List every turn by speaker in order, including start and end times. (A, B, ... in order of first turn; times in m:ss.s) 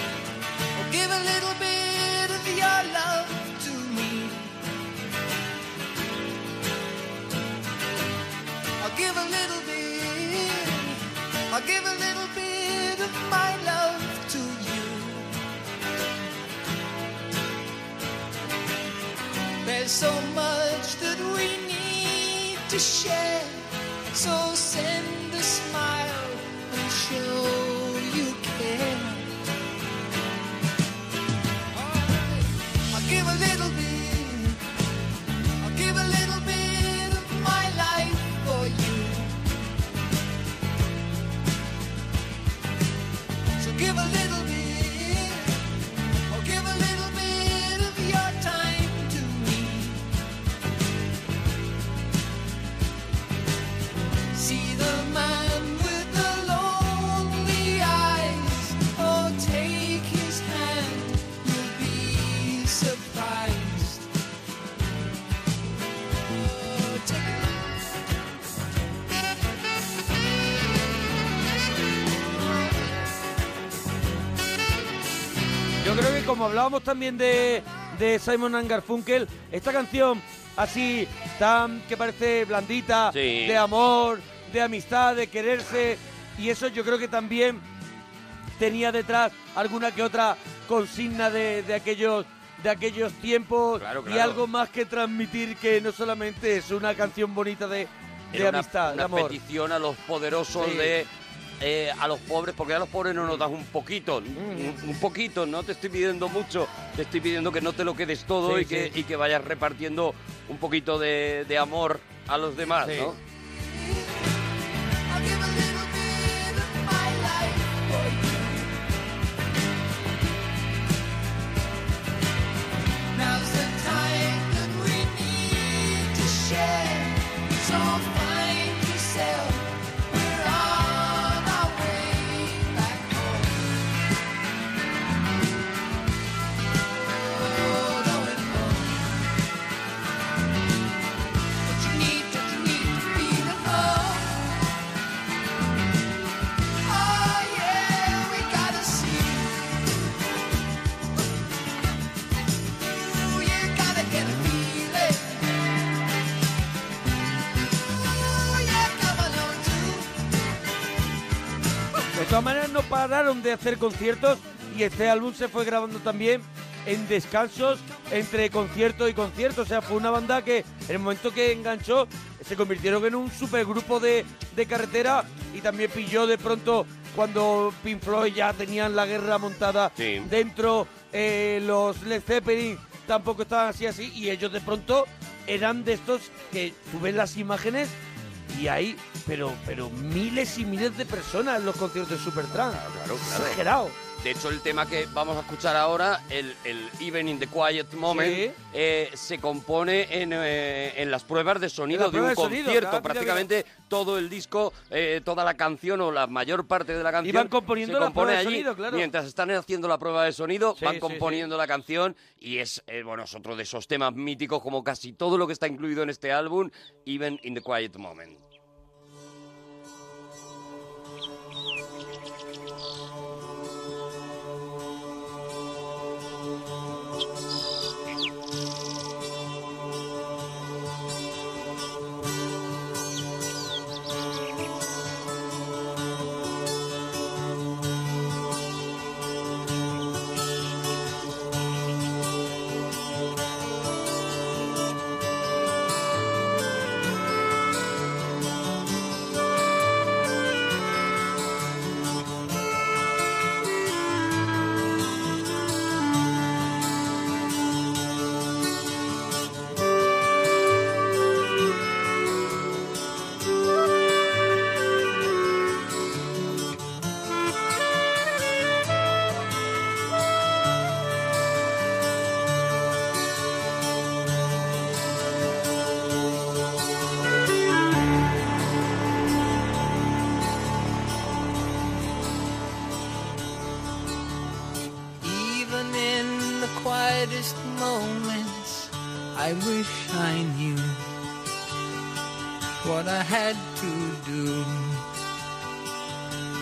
0:00.8-0:04.6 A
0:08.8-0:15.3 A
0:19.6-0:29.3 A
0:31.8-0:34.6 A
0:35.6-0:39.4 A
0:43.6-0:45.6 A
0:46.3-0:50.1 A
0:54.3-1:04.1 A
1:06.4-1:07.8 A
1:12.3-1:12.9 A
1:15.8-1:27.6 B
1:23.1-1:23.6 C
1:28.6-1:39.4 B
1:33.8-1:34.4 C
1:38.3-1:41.1 C
1:40.6-1:40.9 B
1:41.6-1:53.2 C
1:44.4-1:44.8 B
1:48.4-1:48.9 B
1:52.8-1:53.1 B
1:53.6-1:54.2 A
1:55.1-1:58.8 A
2:03.1-2:13.8 A
2:16.9-2:19.1 A
2:21.6-2:24.5 A
2:26.8-2:29.8 A
2:33.0-2:35.5 A
2:38.3-2:40.2 A
2:42.2-3:08.0 B
3:00.0-3:00.3 C
3:08.5-3:14.0 B
3:12.7-3:13.6 C
3:14.2-3:38.4 C
3:18.1-3:18.6 B
3:21.9-3:23.5 B
3:27.2-3:29.1 B
3:30.8-3:31.4 B
4:45.2-4:51.1 A
4:52.8-4:55.0 A